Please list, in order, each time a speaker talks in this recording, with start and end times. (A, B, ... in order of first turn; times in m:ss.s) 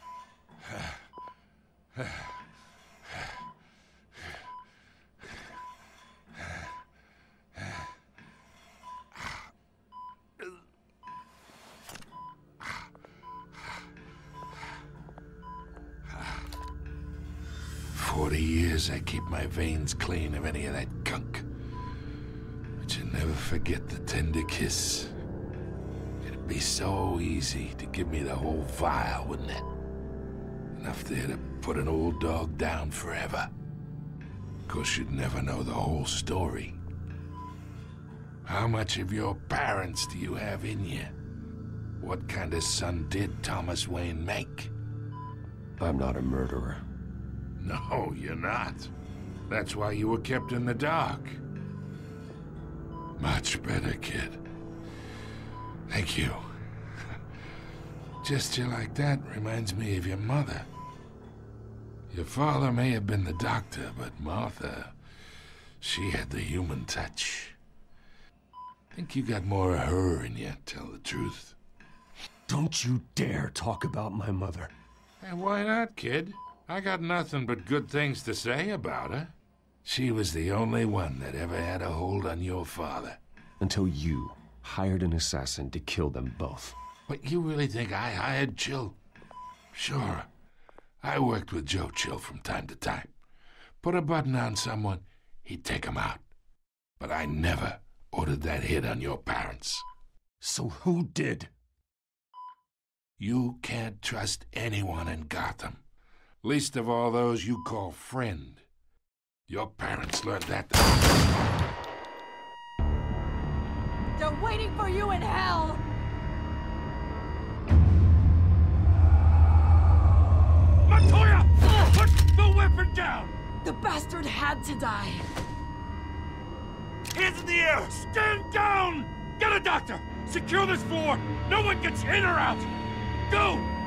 0:00.6-0:01.0 A
0:02.0-0:02.2 A
0:17.9-0:21.5 A
0:22.8-0:25.1 A
0:26.2-0:29.7 A
0:30.7-0:33.5 A
0:34.7-0:36.8 A
0:38.4-0:41.1 A
0:42.0-0:44.7 A
0:45.8-0:46.8 B
0:47.6-0:48.9 A
0:49.5-0:51.4 A
0:53.2-0:54.4 A
0:55.9-0:56.4 A
0:58.2-1:00.7 A
1:02.1-1:05.0 A
1:05.8-1:07.6 A
1:08.9-1:11.6 A
1:12.5-1:14.7 B
1:15.2-1:23.2 A
1:23.6-1:26.8 B
1:27.1-1:29.0 A
1:29.7-1:30.3 A
1:31.0-1:33.1 A
1:33.8-1:36.2 A
1:37.0-1:39.8 A
1:40.4-1:41.5 B
1:43.2-1:45.8 A
1:46.4-1:48.6 A
1:49.5-1:51.0 A
1:54.2-1:55.8 C
2:00.8-2:03.3 D
2:03.6-2:05.3 C
2:07.1-2:12.7 D
2:13.3-2:13.7 D